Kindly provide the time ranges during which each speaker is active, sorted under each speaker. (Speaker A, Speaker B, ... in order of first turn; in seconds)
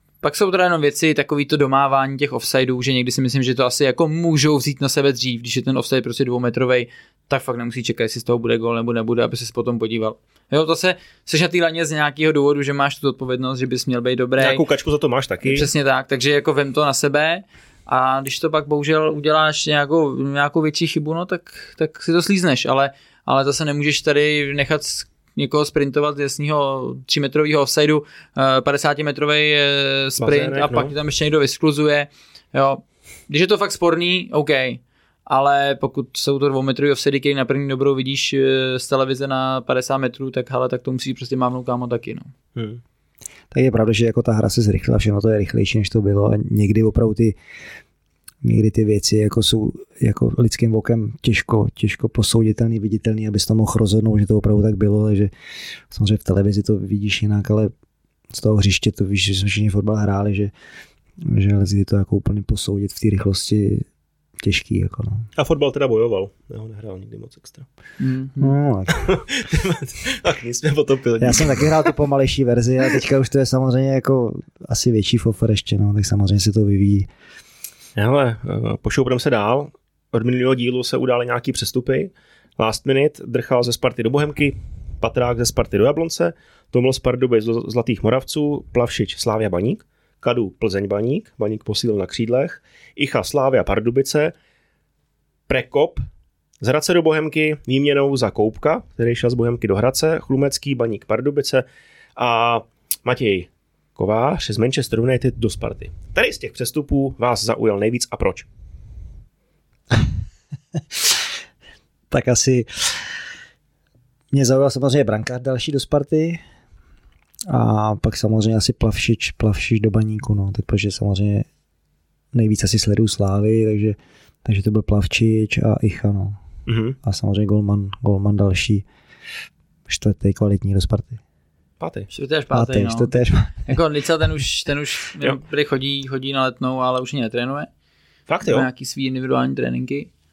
Speaker A: 0.2-14.6, 15.4-42.3, 68.0-68.5, 132.1-137.7, 138.4-140.1
Speaker B: 14.4-15.7, 30.2-30.9, 42.6-42.8, 65.4-67.7, 68.9-71.9, 78.0-94.3, 95.5-96.0, 96.6-108.5, 126.7-127.0, 131.8-132.1, 138.3-138.7
Speaker C: 43.5-47.4, 48.4-55.3, 55.9-57.7, 58.3-60.5, 61.2-63.9, 64.4-65.3, 68.4-69.2, 71.2-77.1, 110.9-111.2, 112.1-113.1, 114.3-116.4, 117.5-121.5, 122.3-126.4, 127.0-128.9, 129.9-131.2, 132.5-133.8